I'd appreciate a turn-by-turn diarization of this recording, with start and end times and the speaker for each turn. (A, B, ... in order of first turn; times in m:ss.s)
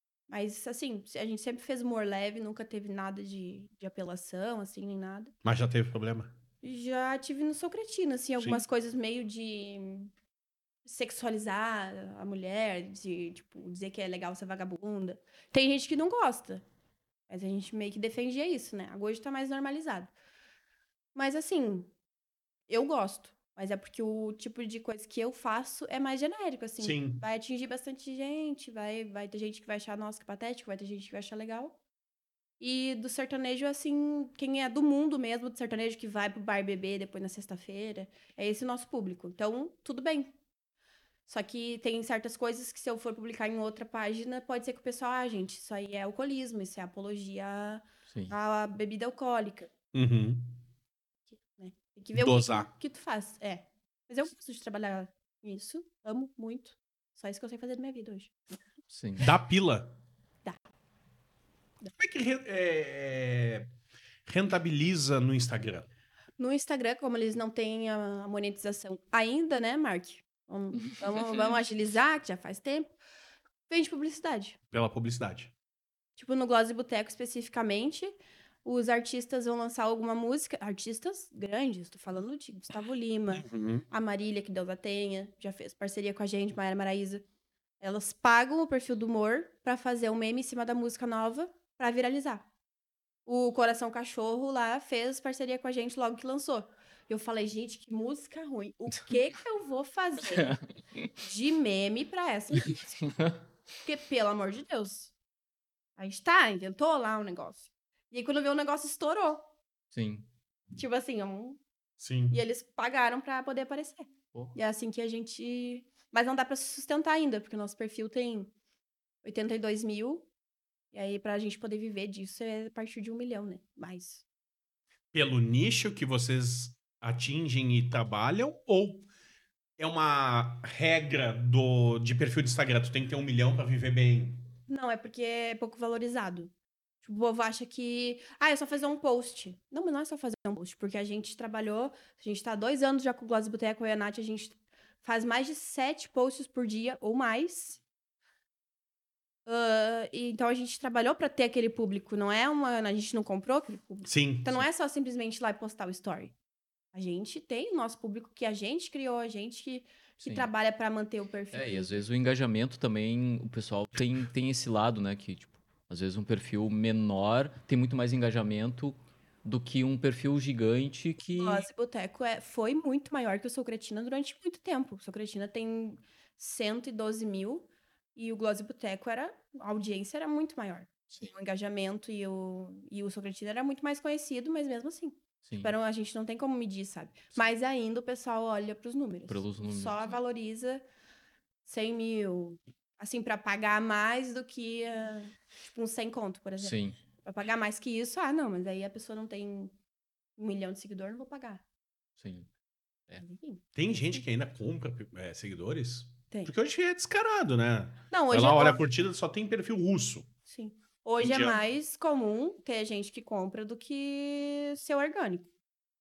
0:00.3-0:05.3 A
0:05.4-0:06.3 B
0:06.6-0:10.1 A
0:10.8-0:16.6 A
0:17.3-0:20.1 A
0:21.2-0:21.9 A
0:22.7-0:31.8 A
0:26.8-0:27.2 B
0:32.6-0:40.3 A
0:41.3-0:49.7 A
0:49.9-0:50.6 B
0:51.4-0:58.3 A
0:52.2-0:52.7 B
0:58.9-0:59.3 C
0:59.2-0:59.9 B
1:02.0-1:03.7 B
1:04.3-1:05.9 B
1:06.4-1:12.9 A
1:13.7-1:14.6 A
1:14.7-1:15.5 B
1:16.2-1:18.1 A
1:18.6-1:27.2 A
1:23.3-1:23.8 B
1:27.8-1:32.4 A
1:33.3-1:40.6 A
1:41.2-1:43.0 A
1:43.8-1:45.1 A
1:46.0-1:49.5 A
1:49.9-1:50.3 C
1:50.8-1:51.6 A
1:52.0-1:52.4 B
1:52.3-1:58.5 A
1:59.2-2:00.3 A
2:00.9-2:04.2 A
2:05.1-2:09.1 B
2:09.8-2:14.4 B
2:14.7-2:16.5 A
2:17.0-2:27.8 A
2:29.5-2:36.3 A
2:34.0-2:34.6 B
2:36.9-2:42.0 A
2:40.2-2:40.5 C
2:41.5-2:51.7 C
2:51.3-3:10.8 A
3:05.4-3:05.7 C
3:09.3-3:10.2 C
3:11.6-3:19.7 A
3:16.6-3:17.0 C
3:20.4-3:21.6 A
3:22.2-3:22.5 C
3:23.2-3:24.2 A
3:23.8-3:30.3 B
3:28.1-3:28.8 A
3:30.5-3:35.5 A
3:31.2-3:31.6 B